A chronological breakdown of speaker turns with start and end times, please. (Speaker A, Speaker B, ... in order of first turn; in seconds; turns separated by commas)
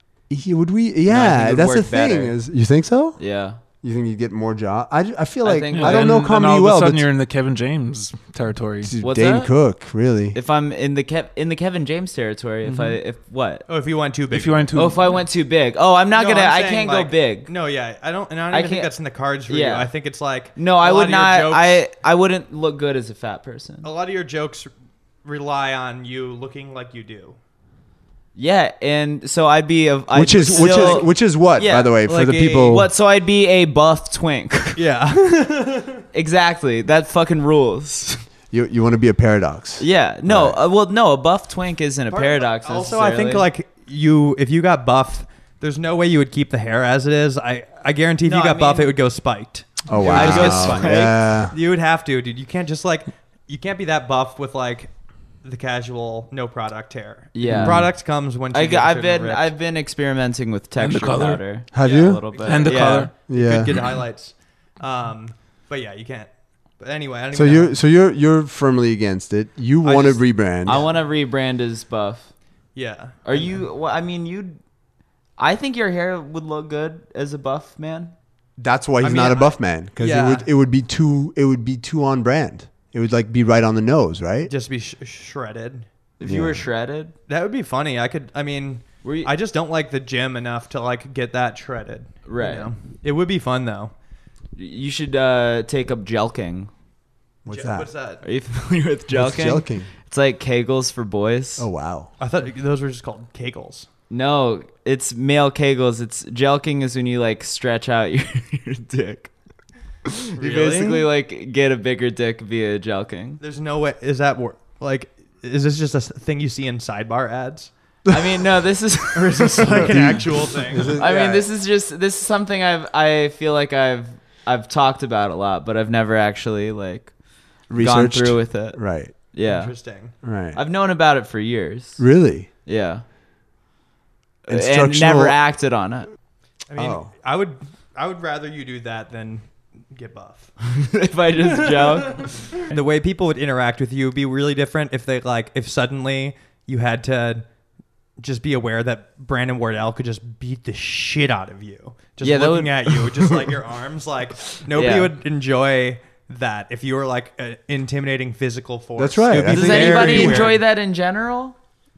Speaker A: 0.3-3.2, Speaker B: 1.1-2.4, Speaker B: 3.2-3.6, Speaker A: 3.8-7.1, Speaker B: 5.4-6.2, Speaker C: 5.7-8.9, Speaker A: 8.8-10.4, Speaker B: 9.0-9.5, Speaker B: 10.3-13.6, Speaker C: 12.7-13.0, Speaker D: 13.7-14.8, Speaker C: 14.3-15.2, Speaker B: 14.8-17.5, Speaker D: 16.1-21.8, Speaker B: 18.5-18.9, Speaker B: 19.5-19.9, Speaker B: 20.6-23.9, Speaker D: 23.8-24.7, Speaker D: 25.2-27.4, Speaker B: 28.4-32.0, Speaker A: 30.1-32.9, Speaker D: 30.5-31.1, Speaker D: 32.0-32.8, Speaker B: 32.7-34.8, Speaker D: 34.8-36.0, Speaker B: 36.1-38.2, Speaker A: 38.5-40.6, Speaker B: 39.8-43.5, Speaker D: 42.1-54.9, Speaker B: 48.2-49.0, Speaker A: 49.9-51.5, Speaker B: 50.0-51.1, Speaker D: 55.4-59.5, Speaker B: 57.3-58.0, Speaker A: 57.4-57.9, Speaker B: 58.5-63.1, Speaker C: 60.8-61.4, Speaker A: 61.7-62.3, Speaker D: 61.8-67.8, Speaker C: 62.5-63.1, Speaker A: 63.3-63.8, Speaker A: 67.3-70.8, Speaker D: 69.8-70.2, Speaker B: 70.6-72.3, Speaker D: 72.8-73.6, Speaker B: 73.2-74.6, Speaker B: 75.4-78.1, Speaker A: 78.6-84.5, Speaker D: 79.0-80.5, Speaker D: 84.5-85.9, Speaker B: 86.2-87.1, Speaker A: 86.2-86.7, Speaker D: 87.3-93.9, Speaker B: 89.0-89.3, Speaker B: 92.3-92.7, Speaker B: 94.6-96.7, Speaker A: 97.5-97.9, Speaker D: 97.5-98.2, Speaker B: 98.2-101.7, Speaker A: 99.1-99.9, Speaker A: 101.6-102.1, Speaker D: 102.2-103.9, Speaker B: 104.1-109.3, Speaker B: 110.1-113.4, Speaker D: 110.4-111.1, Speaker D: 113.4-117.7, Speaker B: 118.1-120.0, Speaker D: 119.1-121.0, Speaker A: 119.8-121.5, Speaker B: 121.0-127.1, Speaker B: 127.7-129.8, Speaker A: 127.7-129.1, Speaker D: 129.4-130.1, Speaker A: 130.2-130.6, Speaker B: 130.5-132.0, Speaker A: 132.0-132.5, Speaker B: 132.7-133.0, Speaker B: 134.5-136.1, Speaker A: 134.5-135.4, Speaker D: 136.7-140.5, Speaker A: 136.8-137.1, Speaker B: 140.7-142.8, Speaker D: 141.6-147.5, Speaker D: 148.2-160.6, Speaker B: 152.2-153.4, Speaker B: 154.7-155.1, Speaker A: 159.0-160.6, Speaker B: 159.4-161.6